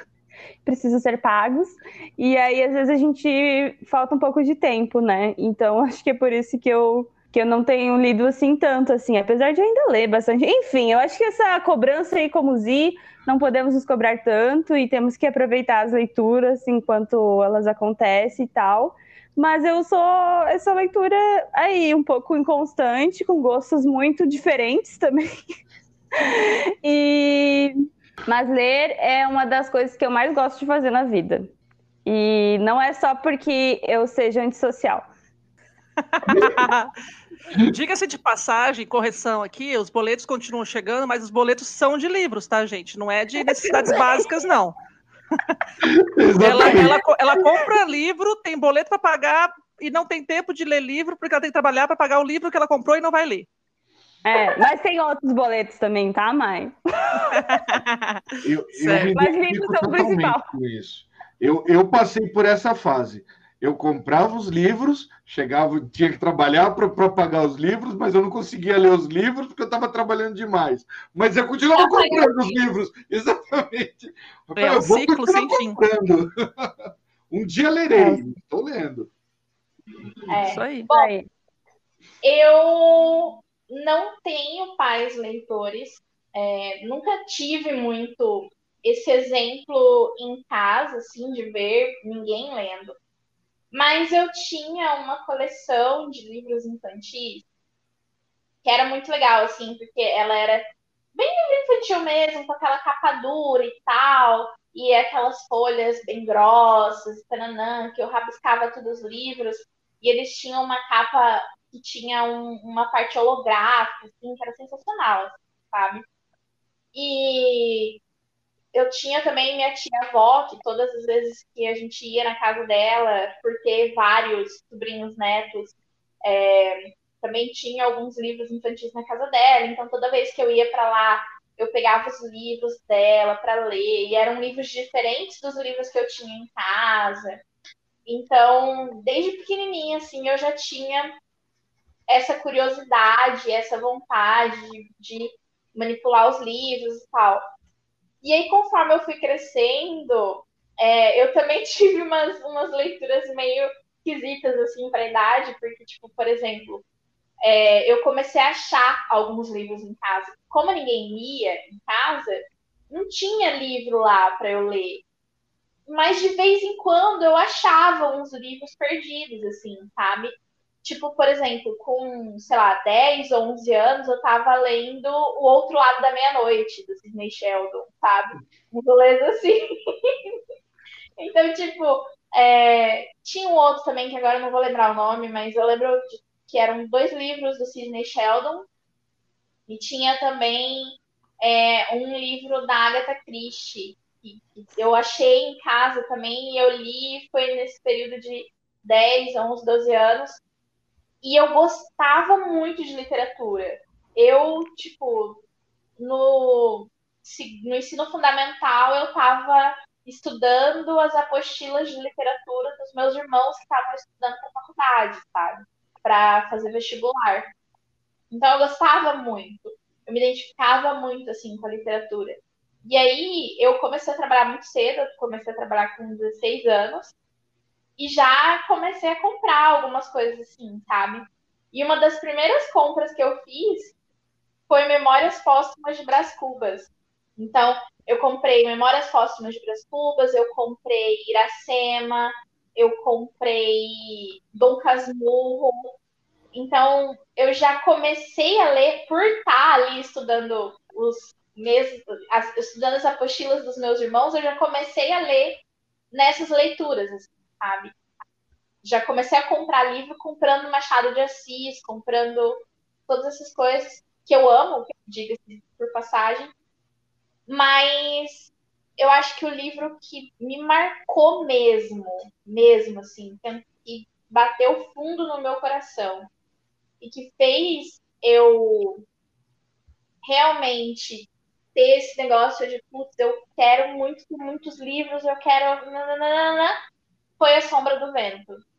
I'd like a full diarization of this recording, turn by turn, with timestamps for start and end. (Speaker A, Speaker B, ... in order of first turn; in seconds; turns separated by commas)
Speaker A: 0.7-25.3, Speaker A: 26.2-27.7, Speaker A: 28.3-31.5, Speaker A: 32.0-35.1, Speaker B: 36.1-36.9, Speaker C: 36.3-36.6, Speaker B: 37.6-44.8, Speaker C: 45.8-47.0, Speaker B: 46.4-53.5, Speaker A: 54.2-57.6, Speaker B: 57.4-58.2, Speaker C: 58.4-76.7, Speaker B: 58.8-59.1, Speaker A: 59.1-60.5, Speaker D: 71.8-72.6, Speaker B: 74.6-75.8, Speaker C: 77.3-79.1, Speaker A: 78.0-78.2, Speaker D: 80.3-81.1, Speaker B: 80.5-80.9, Speaker A: 80.9-81.3, Speaker D: 82.2-93.0, Speaker D: 93.7-97.5, Speaker D: 98.6-116.0, Speaker D: 116.9-118.0, Speaker D: 118.7-137.4, Speaker D: 138.1-141.2, Speaker D: 142.1-147.4, Speaker D: 148.2-156.8, Speaker D: 157.4-165.0, Speaker D: 165.9-180.4, Speaker D: 181.2-188.7, Speaker D: 189.7-200.4, Speaker D: 201.2-205.4, Speaker D: 206.0-217.5, Speaker D: 218.3-227.1, Speaker D: 228.0-233.9, Speaker D: 234.7-245.9, Speaker D: 246.5-257.9, Speaker D: 258.8-266.5, Speaker D: 267.5-276.3, Speaker D: 277.0-279.1, Speaker D: 280.2-286.8, Speaker D: 287.4-288.6